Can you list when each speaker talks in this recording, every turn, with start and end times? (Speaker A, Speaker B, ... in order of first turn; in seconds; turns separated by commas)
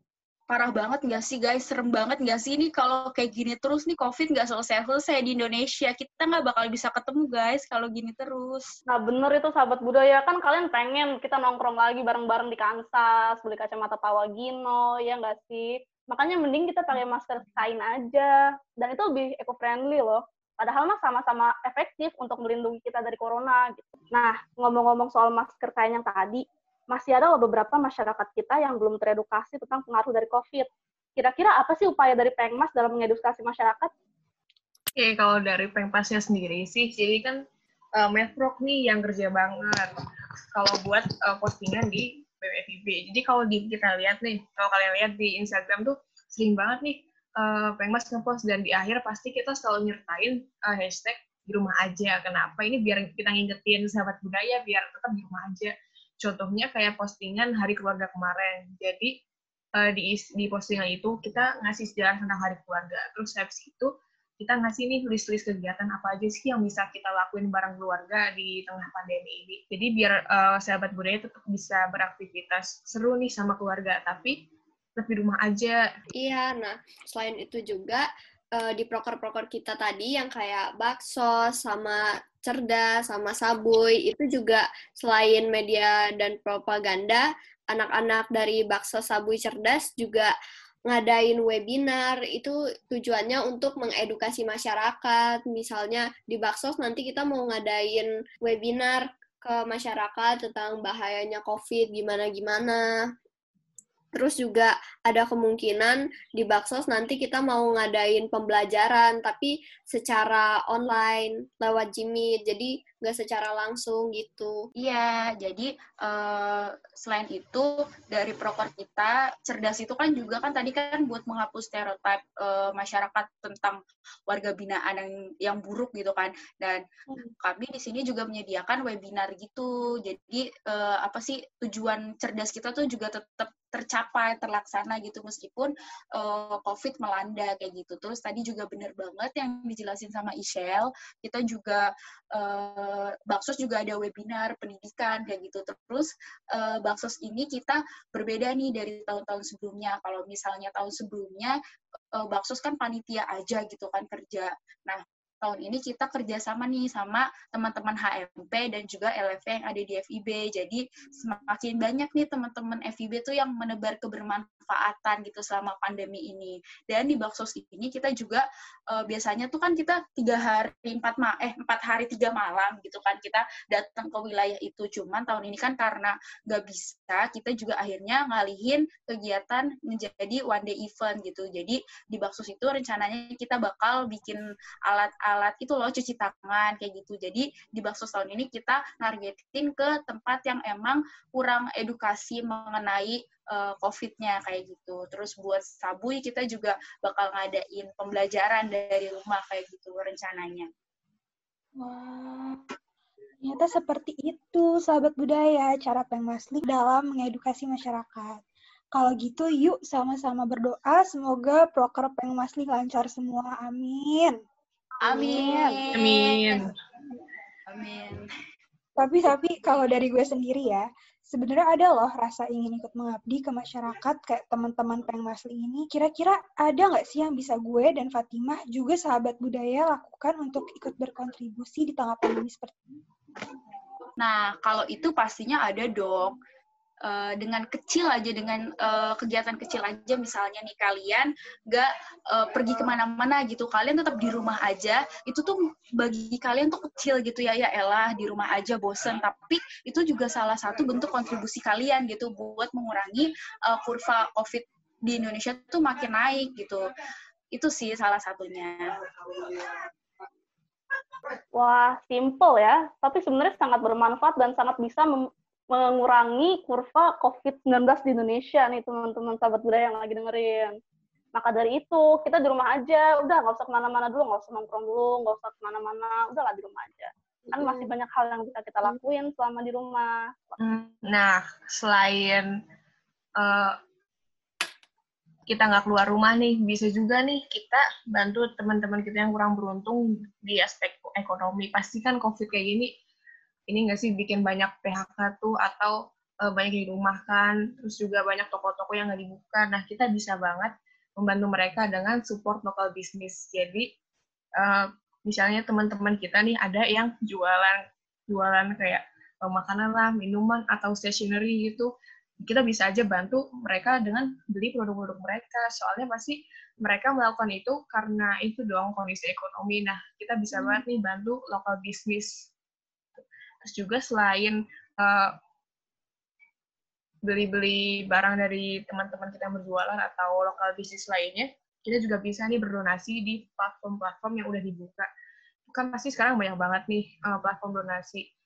Speaker A: 0.5-8.8, Speaker B: 8.9-33.9, Speaker C: 35.0-37.4, Speaker C: 38.0-40.0, Speaker C: 40.5-59.1, Speaker C: 59.8-74.4, Speaker C: 75.0-75.9, Speaker D: 76.2-90.3, Speaker D: 90.9-102.9, Speaker D: 104.2-114.6, Speaker A: 114.8-126.8, Speaker A: 127.4-151.6, Speaker A: 152.2-200.7, Speaker E: 201.8-202.6, Speaker E: 203.4-208.4, Speaker E: 208.9-214.4, Speaker E: 215.0-215.9, Speaker A: 215.0-216.7, Speaker C: 215.9-216.7, Speaker A: 217.7-218.3, Speaker E: 219.0-233.0, Speaker A: 234.2-236.4, Speaker A: 237.1-256.9, Speaker A: 257.5-259.8, Speaker B: 261.5-270.8, Speaker B: 271.4-280.6, Speaker D: 277.6-277.9, Speaker C: 280.6-282.6, Speaker C: 283.4-283.8, Speaker C: 285.5-292.9, Speaker C: 293.7-303.9, Speaker C: 304.6-311.9, Speaker C: 312.4-322.5, Speaker C: 323.2-325.4, Speaker C: 327.2-335.1, Speaker C: 335.7-338.2